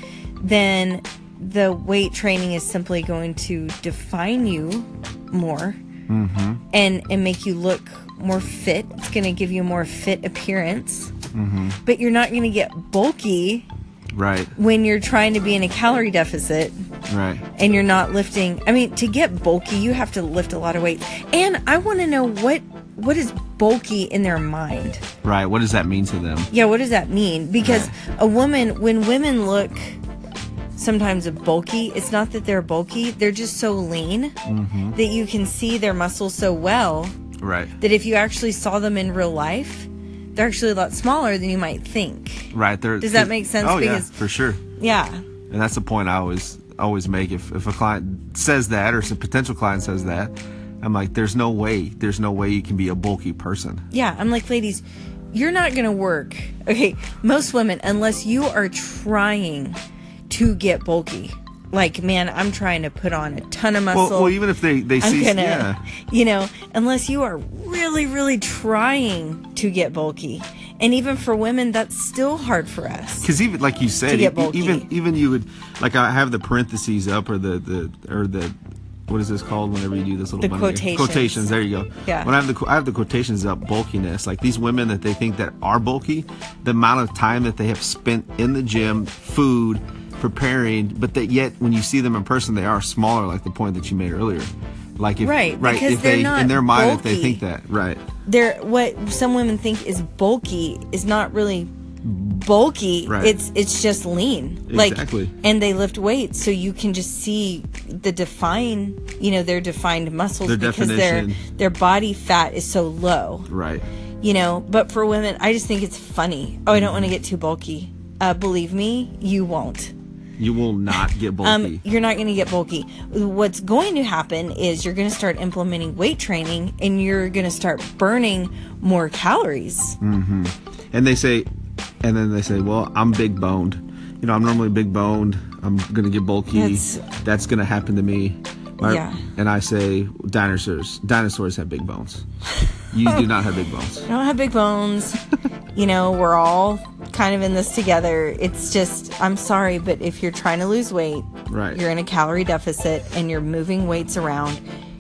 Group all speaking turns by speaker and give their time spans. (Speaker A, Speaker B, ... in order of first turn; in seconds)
Speaker A: 0.4-5.8, 6.7-11.1, 11.8-13.7, 14.6-16.8, 17.6-25.0, 26.5-30.0, 30.8-34.4, 34.9-37.1, 37.8-44.1, 44.8-45.2, 53.9-59.8, 60.3-64.4, 65.0-73.3, 74.1-74.9, 80.4-81.5, 82.0-82.3, 95.2-97.4, 98.3-113.5, 114.2-119.9, 120.9-130.0, 136.5-137.1, 138.8-139.2, 144.1-145.2, 145.8-154.6
Speaker B: 6.1-6.6, 11.3-11.8, 14.1-14.5, 17.1-17.4, 25.2-26.5, 27.6-27.9, 34.5-35.0, 37.4-37.7, 42.5-44.6, 45.5-53.8, 63.9-65.8, 73.2-78.6, 79.1-98.0, 103.1-103.4, 104.7-105.3, 110.4-111.4, 113.5-113.8, 116.7-117.1, 120.4-121.8, 130.0-131.5, 132.0-142.2, 142.9-144.1, 151.5-151.8